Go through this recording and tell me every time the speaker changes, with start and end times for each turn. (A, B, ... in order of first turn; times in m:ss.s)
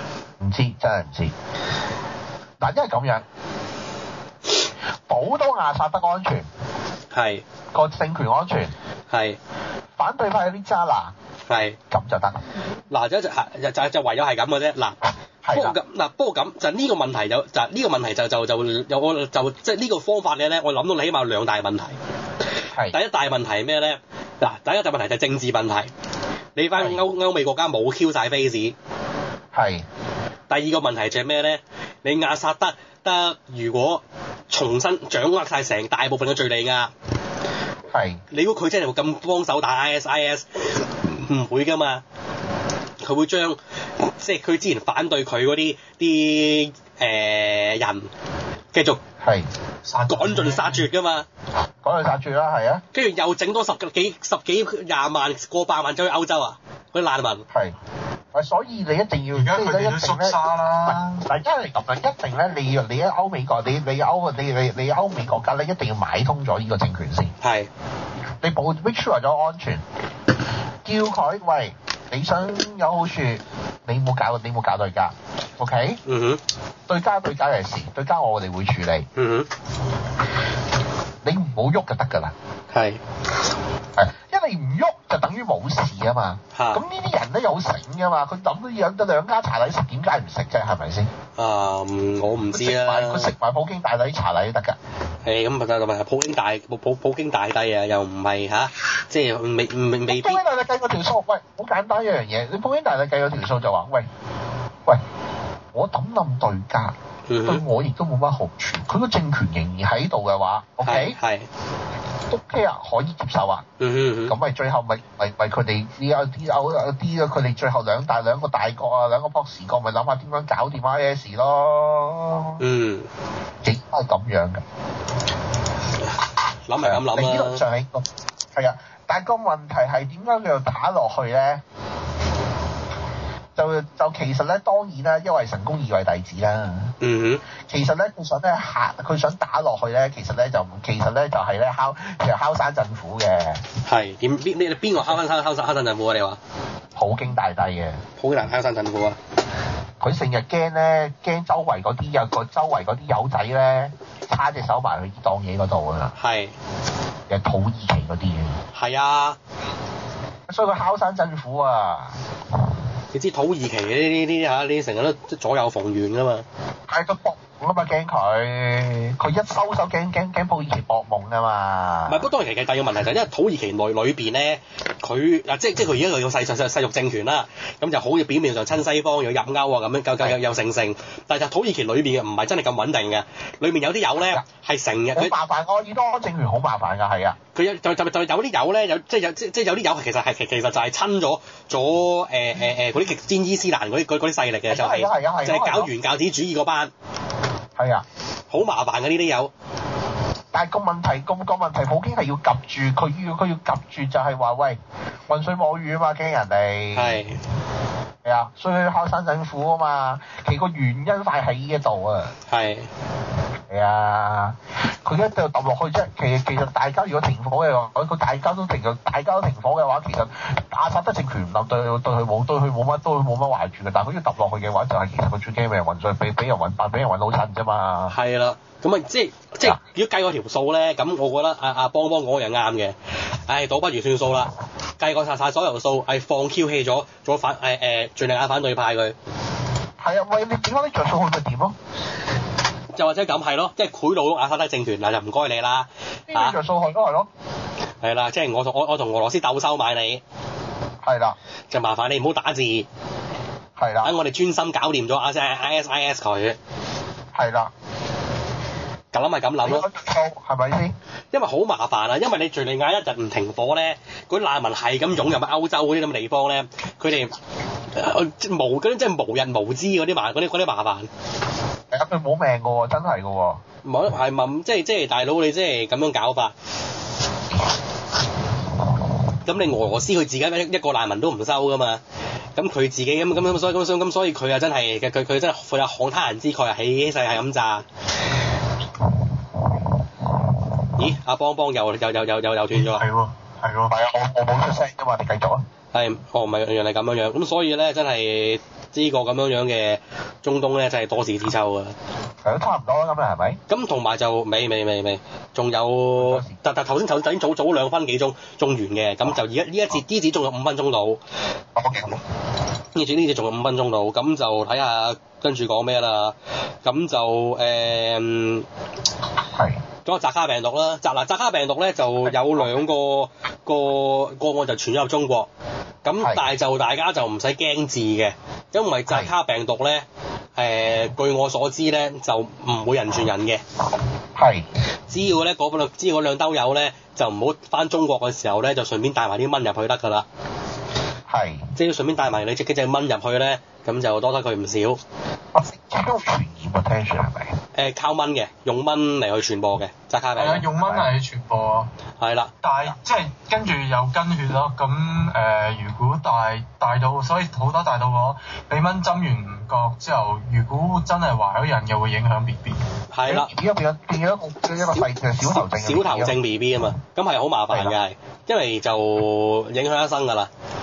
0:00.4-0:01.3 A
0:02.6-0:03.2 A
0:05.1-0:06.5 A
0:07.1-0:07.4 B
0:07.7-0:08.7 A
0:09.1-0:09.4 B
0:10.0-0:11.1 A
0:11.5-0:11.8 B
0:11.9-0:12.4 A
0:12.9-0:15.0 B
0:15.4-0:15.8 A
0:15.5-0:22.0 B
0:22.9-0:25.9 B
0:26.6-0:28.7 B
0:26.8-0:27.0 A
0:29.5-0:29.9 A
0:30.5-0:36.9 B
0:37.9-0:38.2 A
0:38.3-0:42.0 B
0:43.0-0:43.6 B
0:44.2-0:48.1 B
0:48.7-0:49.0 B
0:49.2-0:49.5 A
0:49.8-0:50.9 C
0:50.1-0:51.3 B
0:51.8-0:52.8 A
0:52.9-0:57.4 B
0:58.3-1:07.3 A
0:59.3-1:01.3 C
1:07.4-1:07.7 B
1:08.4-1:09.8 A
1:10.8-1:16.0 A
1:16.1-1:16.4 B
1:16.9-1:19.1 A
1:19.2-1:19.5 B
1:21.2-1:22.3 A
1:22.7-1:23.0 B
1:24.0-1:31.1 A
1:26.6-1:26.8 B
1:31.4-1:33.3 B
1:32.5-1:34.8 A
1:35.2-1:40.4 B
1:40.1-1:44.1 A
1:45.7-1:46.9 A
1:47.3-1:47.6 B
1:47.4-1:51.2 A
1:50.8-1:51.5 B
1:52.3-1:53.6 A
1:53.8-1:54.4 B
1:54.3-2:02.6 A
2:02.6-2:03.1 B
2:03.6-2:04.6 A
2:06.7-2:07.6 B
2:06.8-2:11.6 A
2:13.6-2:17.0 A
2:17.0-2:17.4 B
2:17.6-2:23.6 A
2:23.8-2:26.4 B
2:27.0-2:28.0 A
2:28.2-2:29.2 B
2:30.0-2:36.1 A
2:36.2-2:36.5 B
2:37.3-2:38.6 A
2:38.8-2:39.4 B
2:40.5-2:42.2 A
2:43.1-2:46.4 B
2:46.9-2:52.2 A
2:52.1-3:05.3 B
3:05.2-3:07.4 A
3:07.6-3:16.9 B
3:14.7-3:15.9 A
3:17.8-3:18.0 A
3:18.5-3:19.5 B
3:20.5-3:27.2 A
3:26.9-3:27.4 B
3:28.2-3:32.3 A
3:32.5-3:32.9 B
3:33.7-3:48.2 A
3:48.1-3:53.0 B
3:53.5-3:59.2 B
4:00.0-4:01.8 A
4:03.0-4:06.6 B
4:06.3-4:07.3 A
4:08.0-4:10.2 B
4:11.0-4:11.4 A
4:11.7-4:12.9 B
4:13.8-4:14.1 A
4:14.0-4:16.6 B
4:17.3-4:17.7 A
4:19.1-4:19.9 B
4:19.6-4:21.0 A
4:21.3-4:27.4 B
4:27.9-4:31.1 B
4:31.9-4:33.6 A
4:33.8-4:36.5 B
4:39.4-4:42.0 B
4:42.6-4:47.8 B
4:51.0-4:53.0 B
4:52.7-4:53.9 C
4:53.9-4:55.6 A
4:55.9-5:02.0 B
5:02.4-5:03.6 A
5:03.7-5:11.2 B
5:06.2-5:06.6 A
5:11.8-5:12.2 A
5:13.0-5:18.7 B
5:19.6-5:19.8 A
5:20.1-5:25.5 B
5:22.3-5:22.7 A
5:26.0-5:30.0 B
5:30.6-5:33.6 B
5:34.4-5:34.7 A
5:35.1-5:40.3 B
5:41.3-5:41.7 A
5:41.8-5:45.0 B
5:45.5-5:47.6 A
5:47.8-5:50.7 B
5:50.4-5:51.9 C
5:50.8-5:51.1 A
5:52.2-5:52.5 B
5:52.6-6:02.8 C
6:03.1-6:03.5 B
6:03.3-6:06.4 A
6:04.9-6:10.5 B
6:07.7-6:08.0 A